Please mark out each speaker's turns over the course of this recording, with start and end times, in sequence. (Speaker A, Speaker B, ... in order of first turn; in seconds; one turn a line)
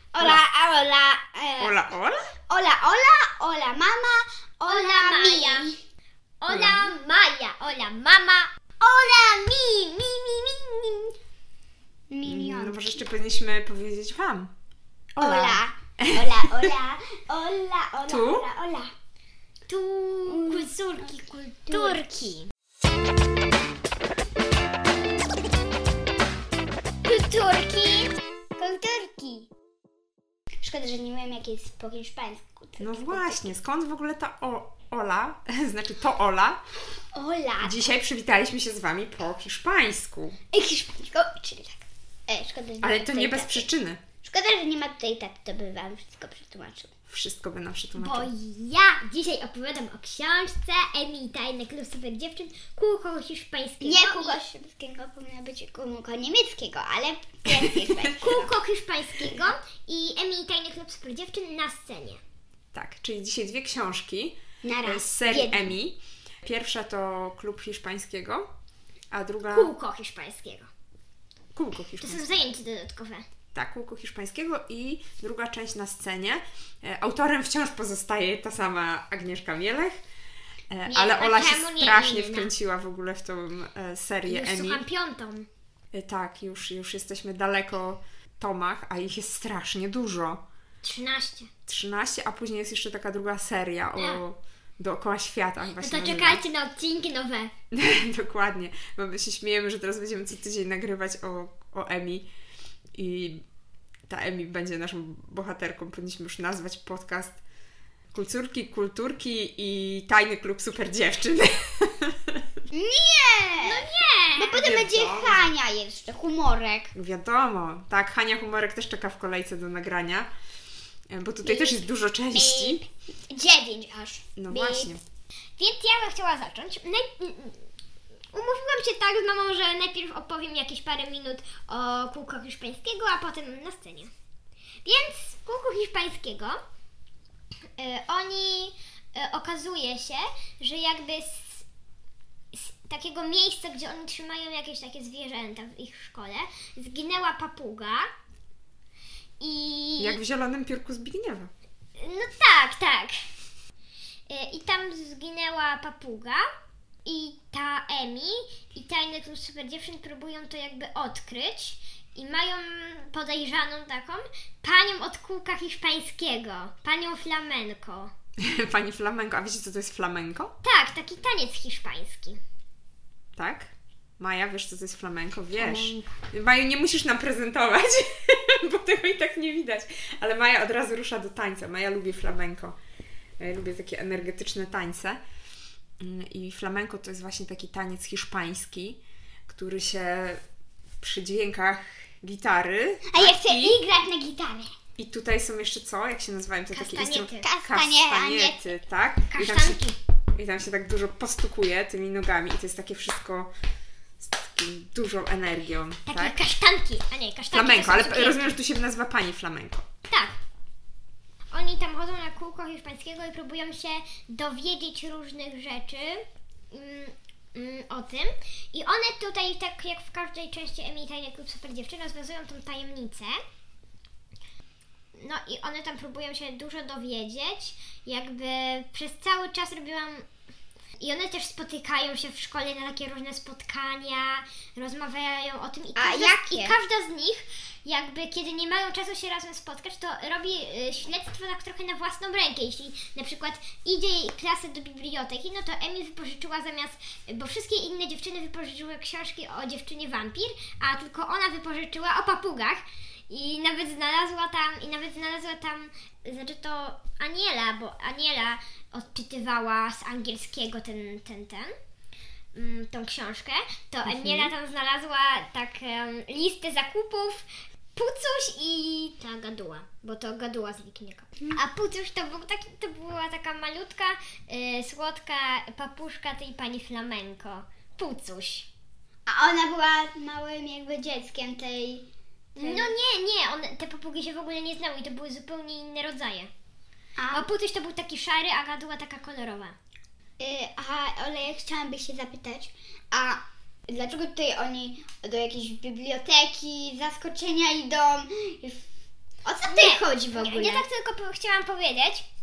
Speaker A: 0.1-1.8
Speaker B: 1.6-2.3
Speaker A: 2.5-5.8
Speaker C: 4.7-5.7
Speaker C: 6.4-8.5
Speaker B: 6.5-6.9
Speaker A: 8.8-9.7
Speaker C: 9.5-11.1
Speaker A: 12.1-13.0
Speaker B: 12.2-14.5
Speaker B: 15.2-16.7
Speaker A: 15.2-18.9
Speaker B: 18.0-18.5
Speaker C: 19.7-22.5
Speaker A: 20.3-22.2
Speaker C: 27.0-28.1
Speaker A: 28.6-29.5
Speaker A: 30.6-33.5
Speaker B: 32.8-36.6
Speaker A: 37.1-37.9
Speaker B: 37.6-40.4
Speaker A: 40.5-43.7
Speaker B: 42.8-44.0
Speaker A: 44.2-46.9
Speaker B: 47.1-48.3
Speaker C: 48.0-54.4
Speaker A: 53.8-58.5
Speaker C: 58.1-62.2
Speaker B: 62.7-68.5
Speaker A: 64.6-65.8
Speaker B: 69.1-69.7
Speaker C: 69.5-70.7
Speaker B: 71.5-72.4
Speaker C: 72.0-73.3
Speaker B: 73.5-80.0
Speaker B: 80.7-84.8
Speaker C: 80.8-82.5
Speaker C: 84.3-85.5
Speaker B: 85.9-90.4
Speaker C: 90.8-91.5
Speaker B: 91.7-96.4
Speaker C: 95.8-97.5
Speaker B: 97.7-102.3
Speaker B: 102.9-103.4
Speaker B: 104.1-107.4
Speaker B: 108.1-112.4
Speaker A: 112.7-116.9
Speaker C: 113.6-114.7
Speaker B: 114.5-115.5
Speaker B: 116.9-120.3
Speaker B: 121.1-122.8
Speaker C: 121.5-121.8
Speaker C: 122.4-122.8
Speaker A: 123.3-124.9
Speaker B: 124.3-125.0
Speaker C: 125.6-127.7
Speaker C: 128.3-134.1
Speaker C: 134.8-136.6
Speaker C: 137.8-141.6
Speaker C: 142.5-148.1
Speaker C: 149.4-150.2
Speaker B: 150.0-151.5
Speaker C: 152.0-153.2
Speaker C: 154.3-156.4
Speaker C: 157.0-168.1
Speaker B: 168.4-170.5
Speaker C: 170.6-172.4
Speaker B: 173.3-182.8
Speaker A: 175.6-176.1
Speaker B: 183.4-185.2
Speaker B: 186.0-190.4
Speaker B: 191.0-193.8
Speaker A: 193.1-194.7
Speaker B: 195.0-199.8
Speaker C: 196.7-197.4
Speaker A: 197.4-198.7
Speaker C: 199.3-199.9
Speaker B: 200.3-203.5
Speaker B: 204.2-206.4
Speaker C: 206.1-208.5
Speaker B: 207.5-209.8
Speaker C: 210.1-210.3
Speaker C: 211.5-223.4
Speaker C: 225.1-230.2
Speaker C: 231.0-261.7
Speaker A: 235.9-236.8
Speaker C: 262.5-278.7
Speaker B: 264.0-264.5
Speaker A: 279.3-282.9
Speaker C: 282.6-286.5
Speaker A: 287.2-287.5
Speaker C: 287.3-289.8
Speaker A: 290.4-298.9
Speaker A: 299.4-300.9
Speaker C: 299.7-302.2